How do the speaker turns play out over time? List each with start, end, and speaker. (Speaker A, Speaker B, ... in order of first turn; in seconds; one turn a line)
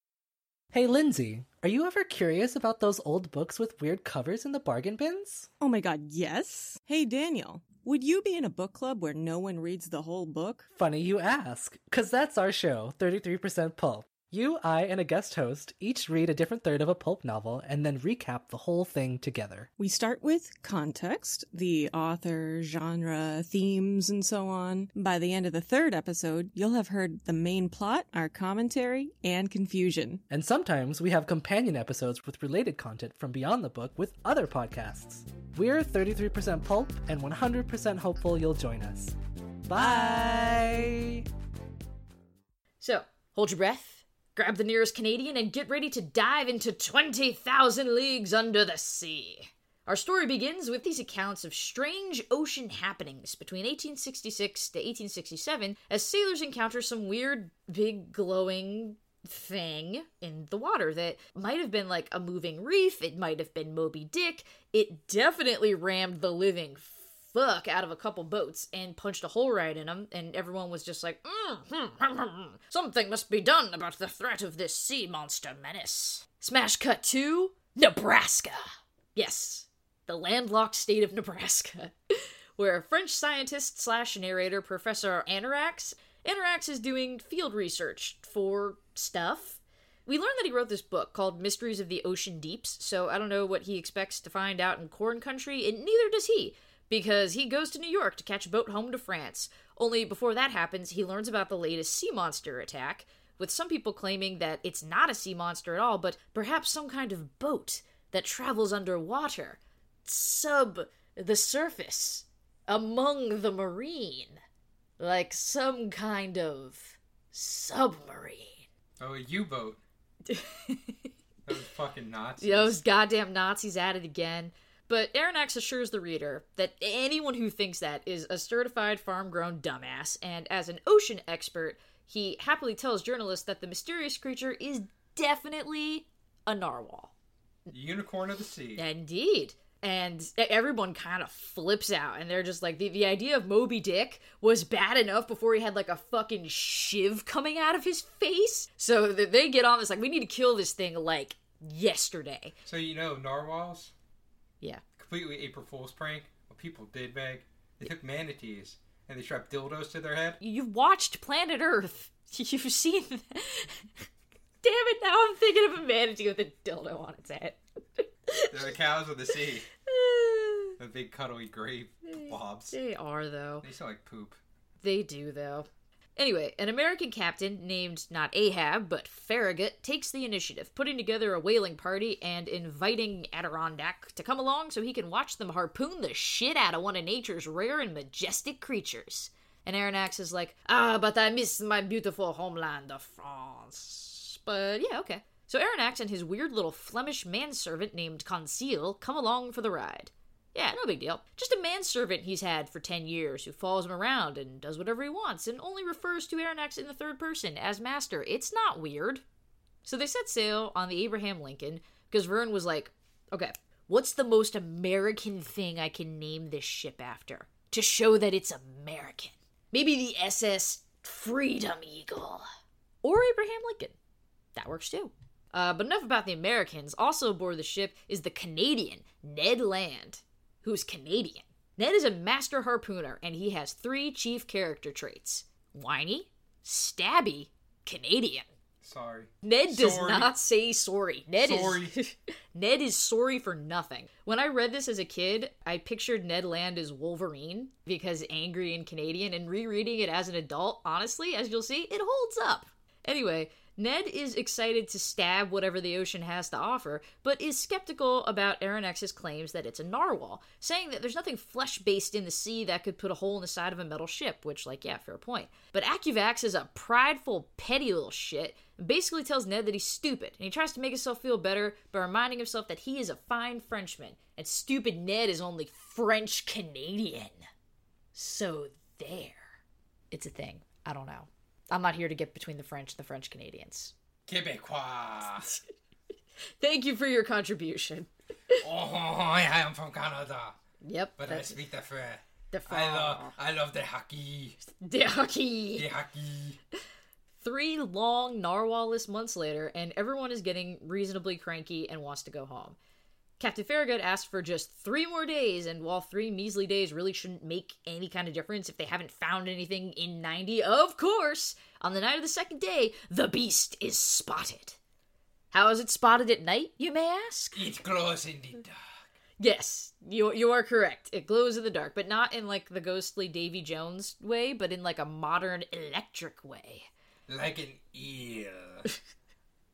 Speaker A: 0.7-5.5
Speaker B: 5.6-10.7
Speaker A: 10.8-19.7
Speaker B: 19.8-30.2
Speaker A: 30.3-39.1
Speaker A: 39.7-41.2
Speaker C: 42.8-114.4
Speaker C: 115.0-118.7
Speaker D: 119.0-119.8
Speaker C: 120.2-121.1
Speaker D: 121.5-122.8
Speaker C: 122.4-137.1
Speaker D: 137.7-138.8
Speaker C: 138.8-152.5
Speaker D: 152.6-153.9
Speaker D: 155.0-160.4
Speaker C: 160.4-164.0
Speaker C: 164.6-168.6
Speaker D: 168.5-169.7
Speaker C: 169.9-170.7
Speaker D: 170.8-172.7
Speaker C: 172.0-173.7
Speaker D: 173.6-174.4
Speaker C: 174.8-209.2
Speaker C: 209.8-222.4
Speaker C: 223.0-223.9
Speaker C: 224.5-238.5
Speaker D: 238.8-240.3
Speaker C: 239.4-277.4
Speaker D: 241.4-241.9
Speaker C: 278.1-279.5
Speaker C: 280.1-283.9
Speaker D: 284.3-285.5
Speaker C: 286.6-288.6
Speaker D: 288.6-290.6
Speaker C: 290.8-291.6
Speaker D: 291.2-294.6
Speaker C: 292.5-293.4
Speaker C: 294.6-295.9
Speaker D: 295.7-296.6
Speaker C: 297.4-302.8
Speaker C: 303.4-314.8
Speaker C: 315.5-317.6
Speaker D: 317.5-319.1
Speaker C: 319.4-326.9
Speaker D: 327.3-328.9